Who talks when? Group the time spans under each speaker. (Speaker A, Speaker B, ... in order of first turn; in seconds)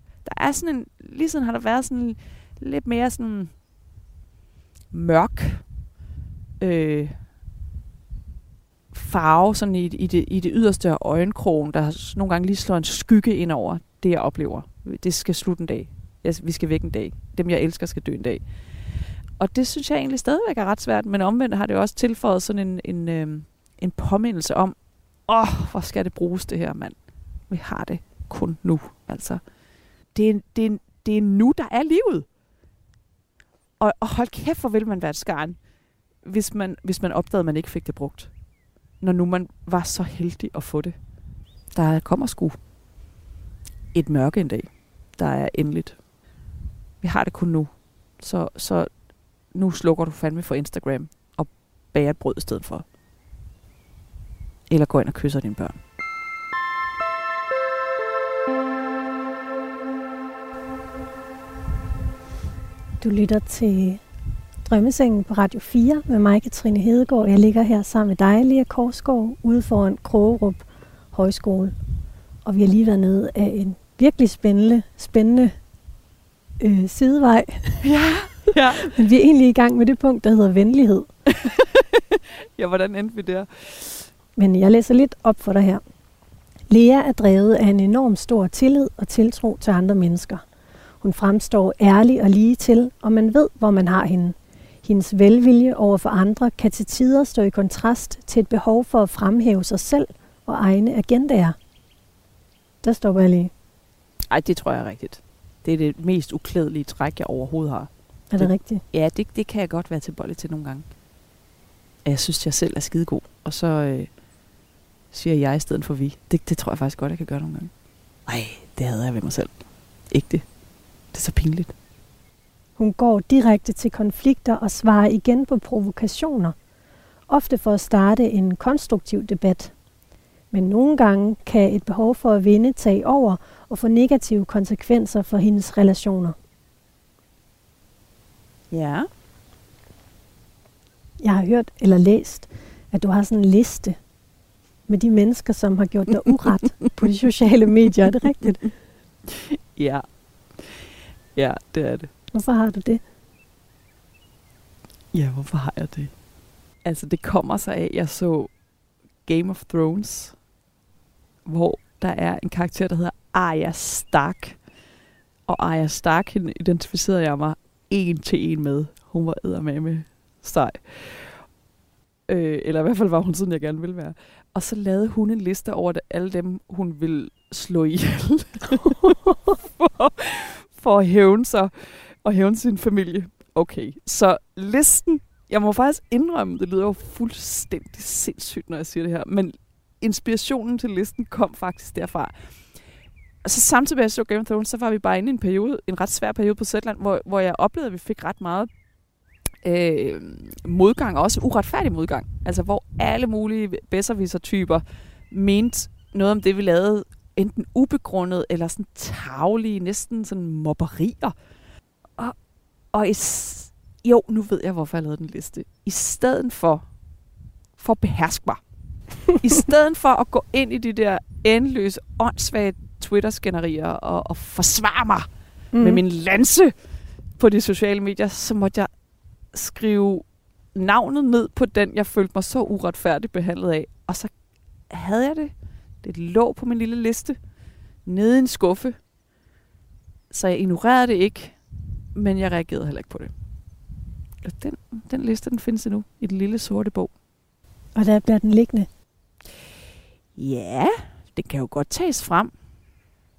Speaker A: 0.2-3.5, 4.9-5.6, 6.6-7.2, 8.9-18.4, 19.4-29.4, 30.1-32.2, 33.8-35.6, 36.2-38.3, 39.0-41.0, 41.7-42.6, 43.9-46.0, 47.0-48.9, 49.5-52.9, 54.7-55.8, 77.8-78.9, 81.3-84.1, 104.3-110.8, 112.0-114.1, 115.1-117.7, 118.2-119.5, 120.1-120.5, 121.1-121.7, 138.7-139.1, 149.3-150.0, 150.6-152.1, 155.1-156.1, 156.8-158.5, 159.2-160.3, 161.4-164.6, 165.5-171.4, 172.3-192.8, 193.4-198.7, 199.6-211.3, 212.9-216.9, 217.8-218.6, 219.3-226.7, 227.4-228.9, 229.5-234.3, 234.9-237.4, 238.0-239.0, 240.3-241.6, 242.1-243.3, 244.4-247.1, 250.3-252.5
Speaker B: 63.0-64.0, 64.6-71.7, 72.4-75.5, 76.6-77.8, 78.8-81.1, 84.4-85.8, 86.7-90.4, 91.0-101.5, 102.8-103.5, 108.3-108.8, 122.8-126.5, 127.3-129.7, 130.5-136.3, 141.2-144.0, 144.9-148.7, 152.3-153.0, 225.7-226.0, 247.9-248.9